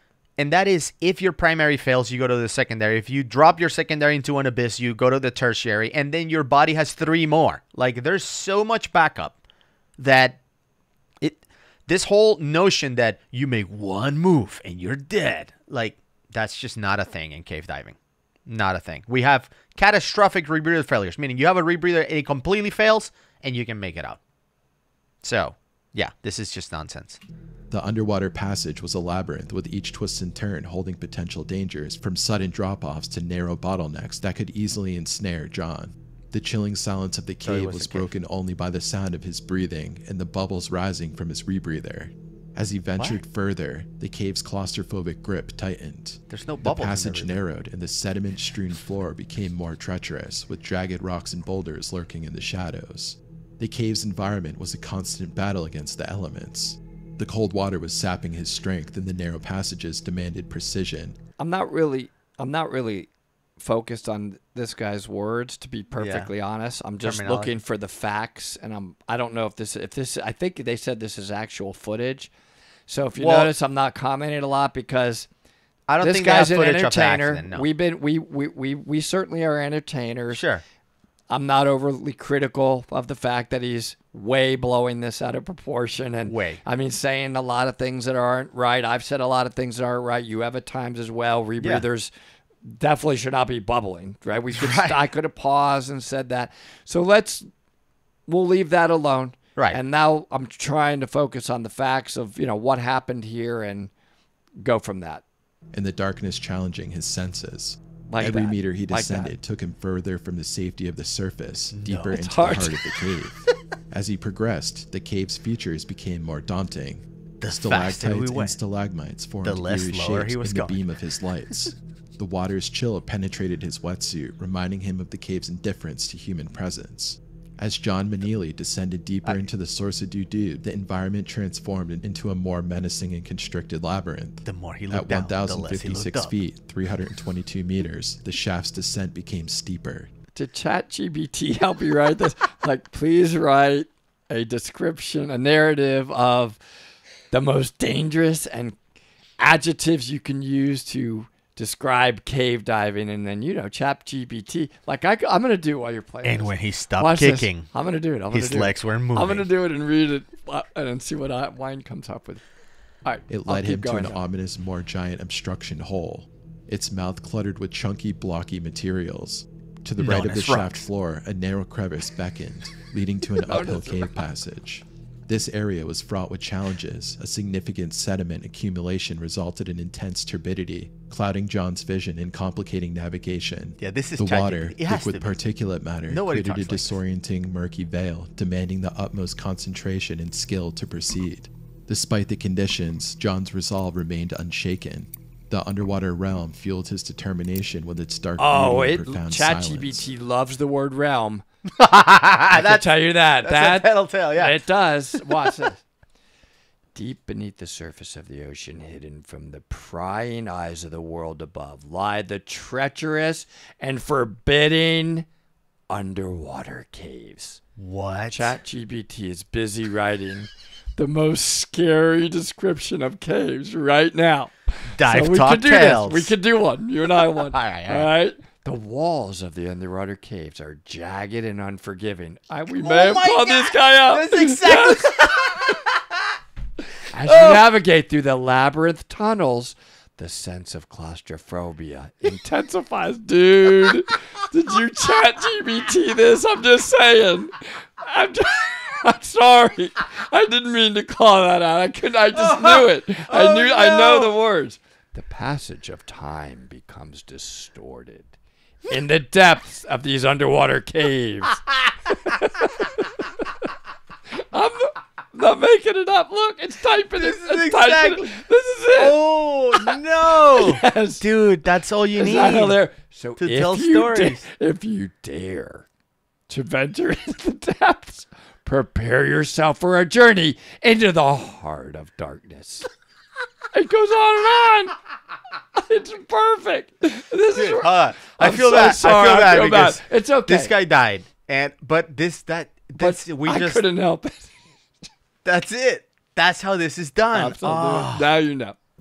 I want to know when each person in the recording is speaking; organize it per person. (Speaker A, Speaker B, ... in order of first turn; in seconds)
Speaker A: 0.4-9.4, 10.0-10.4, 11.2-24.2, 25.2-27.2, 37.4-38.1, 46.3-47.4, 66.0-66.3, 67.0-67.5, 73.2-73.5, 75.9-77.7, 80.3-80.6, 86.2-86.6, 91.6-91.8, 94.5-95.0, 111.7-112.2, 117.4-118.6, 119.4-120.8, 134.4-136.3, 156.2-157.7, 158.3-159.5, 170.0-170.8, 183.8-185.4, 186.1-187.0, 201.8-204.6, 217.8-218.5, 225.0-226.3, 227.3-228.1, 232.7-236.0, 237.2-237.6, 252.3-254.3, 267.1-268.4, 268.9-272.8, 273.4-274.4, 287.5-293.8, 295.4-298.3
Speaker B: 27.7-61.1, 105.7-113.4, 113.9-140.1, 163.3-200.1
Speaker C: 61.4-72.3, 72.9-75.3, 76.0-80.4, 81.3-92.1, 92.6-97.5, 98.3-103.9, 104.6-105.2, 108.1-109.3, 112.1-113.0, 140.3-146.6, 147.3-148.8, 149.4-162.4, 163.0-164.2, 173.4-174.2, 198.4-201.4, 202.5-205.8, 206.9-215.3, 215.9-217.6, 218.3-235.3, 237.1-258.3, 258.9-263.6, 264.3-269.2, 269.7-271.2, 272.1-275.9, 276.5-282.9, 283.7-285.0, 285.8-290.7, 293.0-294.5, 297.3-298.8